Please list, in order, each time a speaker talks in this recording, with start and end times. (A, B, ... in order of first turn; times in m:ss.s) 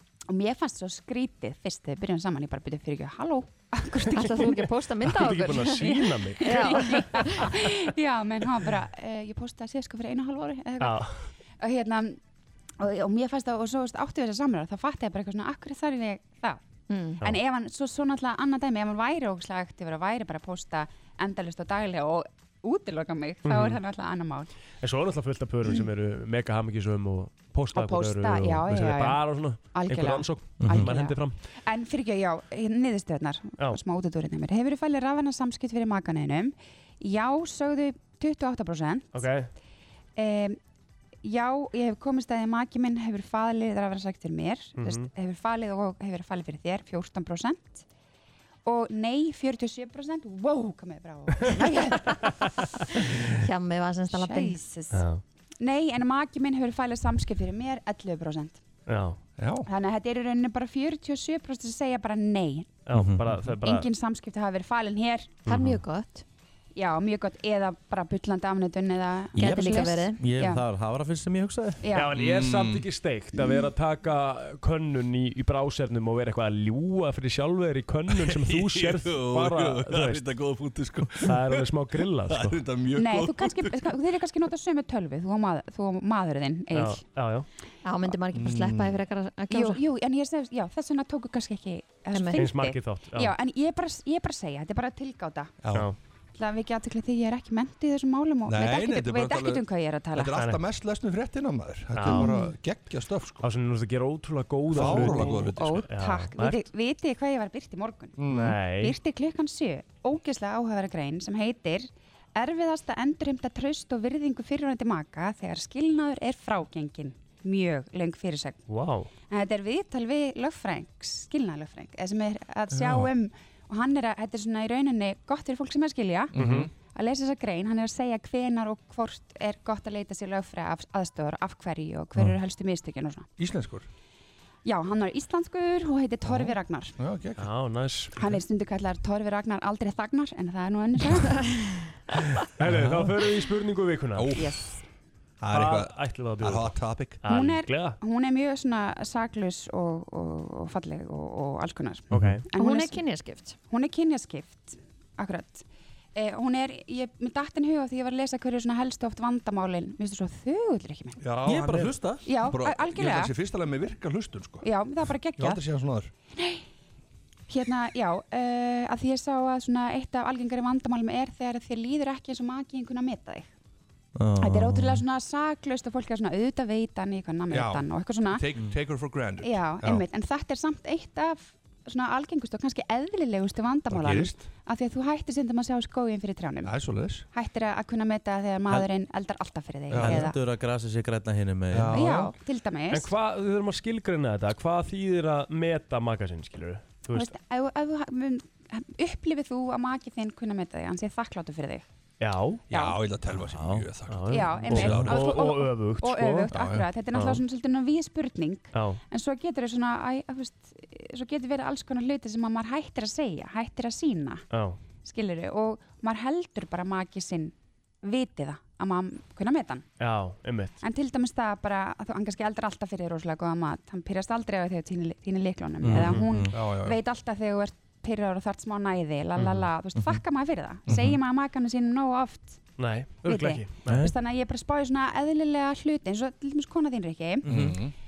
0:00.3-0:04.6 A
0:04.1-0:07.4 B
0:04.2-0:07.6 C
0:05.8-0:12.2 A
0:10.8-0:11.2 C
0:12.8-0:16.6 A
0:16.9-0:17.2 B
0:17.2-0:24.5 A
0:23.4-0:23.8 C
0:24.8-0:31.4 C
0:27.7-0:39.3 A
0:39.1-0:39.5 C
0:40.2-0:40.6 A
0:41.2-0:47.8 A
0:44.8-0:45.1 C
0:48.6-0:52.5 A
0:53.3-0:54.6 B
0:54.1-0:55.1 A
0:54.9-0:55.2 C
0:55.6-0:58.6 A
0:58.9-0:59.2 C
0:59.4-0:59.7 D
0:59.7-1:02.8 A
1:02.8-1:03.9 C
1:02.9-1:03.4 E
1:03.6-1:05.4 A
1:05.5-1:05.8 C
1:05.5-1:06.2 B
1:06.7-1:10.6 A
1:09.4-1:10.2 B
1:10.2-1:11.8 E
1:11.8-1:12.2 A
1:11.9-1:20.3 C
1:12.2-1:12.8 D
1:13.3-1:13.7 A
1:18.1-1:23.8 D
1:21.0-1:22.6 C
1:22.9-1:27.0 A
1:26.7-1:27.5 C
1:27.8-1:29.8 B
1:28.3-1:29.0 D
1:29.5-1:35.5 A
1:32.1-1:32.5 B
1:32.4-1:33.3 C
1:35.6-1:35.9 D
1:36.3-1:40.3 A
1:38.5-1:39.6 D
1:40.2-1:43.4 D
1:40.3-1:40.6 C
1:41.9-1:42.4 C
1:42.1-1:42.6 A
1:43.4-1:46.6 C
1:44.7-1:45.8 D
1:44.8-1:58.6 A
1:48.2-1:48.5 D
1:48.2-1:49.0 C
1:58.7-1:59.1 C
1:59.3-2:13.3 A
2:02.7-2:03.1 E
2:06.4-2:06.7 C
2:06.4-2:06.7 D
2:13.4-2:13.9 D
2:14.6-2:17.0 A
2:16.3-2:17.5 D
2:17.4-2:18.4 C
2:18.1-2:21.8 A
2:22.6-2:24.5 C
2:22.6-2:23.2 D
2:24.2-2:24.6 D
2:24.4-2:24.8 A
2:25.4-2:27.2 D
2:25.5-2:28.0 C
2:27.3-2:33.0 A
2:32.1-2:32.4 C
2:32.5-2:33.5 B
2:33.7-2:35.6 A
2:36.1-2:41.2 A
2:41.2-2:44.6 D
2:41.4-2:42.2 E
2:42.2-2:43.3 A
2:44.6-2:45.6 A
2:45.4-2:46.1 D
2:46.3-2:46.6 A
2:47.5-2:53.5 A
2:54.2-2:55.0 E
2:54.4-2:58.4 A
2:57.5-3:00.0 D
2:59.4-3:10.4 A
3:03.9-3:04.5 D
3:06.6-3:07.2 D
3:09.9-3:10.2 D
3:09.9-3:12.2 E
3:11.7-3:12.3 D
3:11.9-3:13.1 A
3:12.9-3:17.3 C
3:17.1-3:21.8 A
3:22.2-3:22.6 C
3:22.7-3:25.3 D
3:22.7-3:23.0 A
3:23.4-3:23.9 E
3:24.1-3:26.5 C
3:24.3-3:34.4 A
3:24.6-3:25.2 E
3:26.5-3:26.8 D
3:27.1-3:27.4 C
3:28.7-3:29.0 C
3:34.5-3:34.8 C
3:35.0-3:39.8 A
3:40.0-3:40.8 C
3:40.8-3:52.7 A
3:45.8-3:46.5 E
3:45.9-3:46.3 C
3:46.5-3:47.0 D
3:49.4-3:49.7 C
3:50.0-3:50.2 E
3:50.9-3:51.1 E
3:52.8-3:54.1 C
3:53.2-3:57.7 A
3:53.9-3:54.1 E
3:57.4-3:57.8 E
3:57.4-3:57.9 D